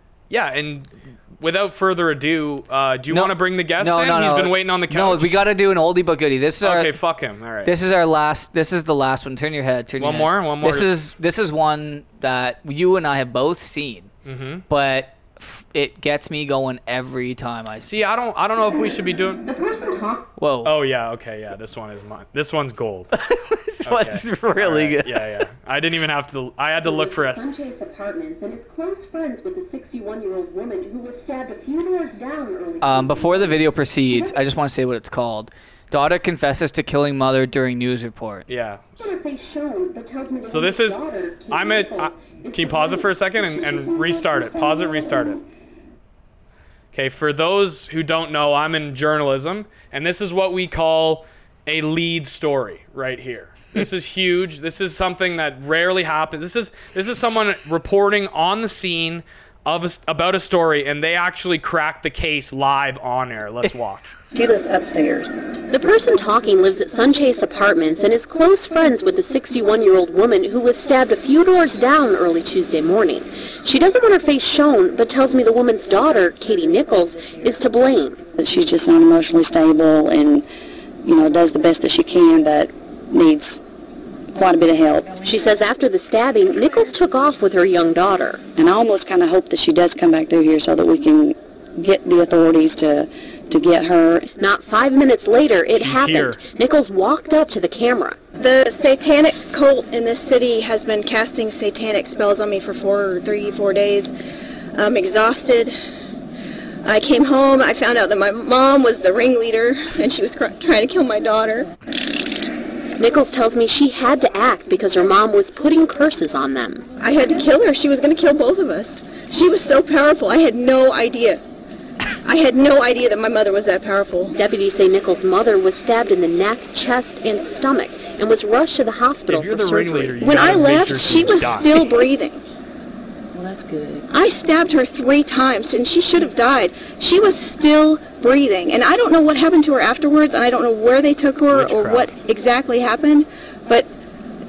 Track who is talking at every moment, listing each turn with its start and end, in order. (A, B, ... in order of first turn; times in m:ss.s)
0:00.3-0:05.4 A
0:03.1-0:07.0 B
0:06.6-0:07.7 A
0:07.6-0:14.1 B
0:10.0-0:10.9 A
0:14.2-0:14.6 A
0:14.7-0:17.9 B
0:17.8-0:19.4 A
0:19.4-0:20.3 C
0:20.4-0:20.7 B
0:20.6-0:23.1 A
0:23.1-0:25.4 B
0:23.8-0:27.4 A
0:26.8-0:34.4 C
0:32.8-0:38.4 B
0:38.5-0:39.1 A
0:39.0-0:45.4 C
0:40.4-0:45.4 A
0:46.9-1:04.1 A
1:04.3-1:05.3 D
1:05.7-1:18.2 C
1:18.4-1:20.4 D
1:21.0-1:23.6 D
1:24.3-1:25.2 D
1:25.1-1:28.4 C
1:28.5-1:34.3 D
1:34.4-1:38.2 C
1:35.7-1:36.4 A
1:38.4-1:44.1 E
1:44.8-1:45.8 E
1:46.8-1:51.7 E
1:53.0-1:56.8 C
1:57.0-2:01.4 E
2:02.2-2:04.4 E
2:04.4-2:11.0 C
2:09.3-2:11.7 A
2:10.2-2:12.4 E
2:13.3-2:14.0 C
2:14.1-2:23.9 E
2:21.5-2:22.1 A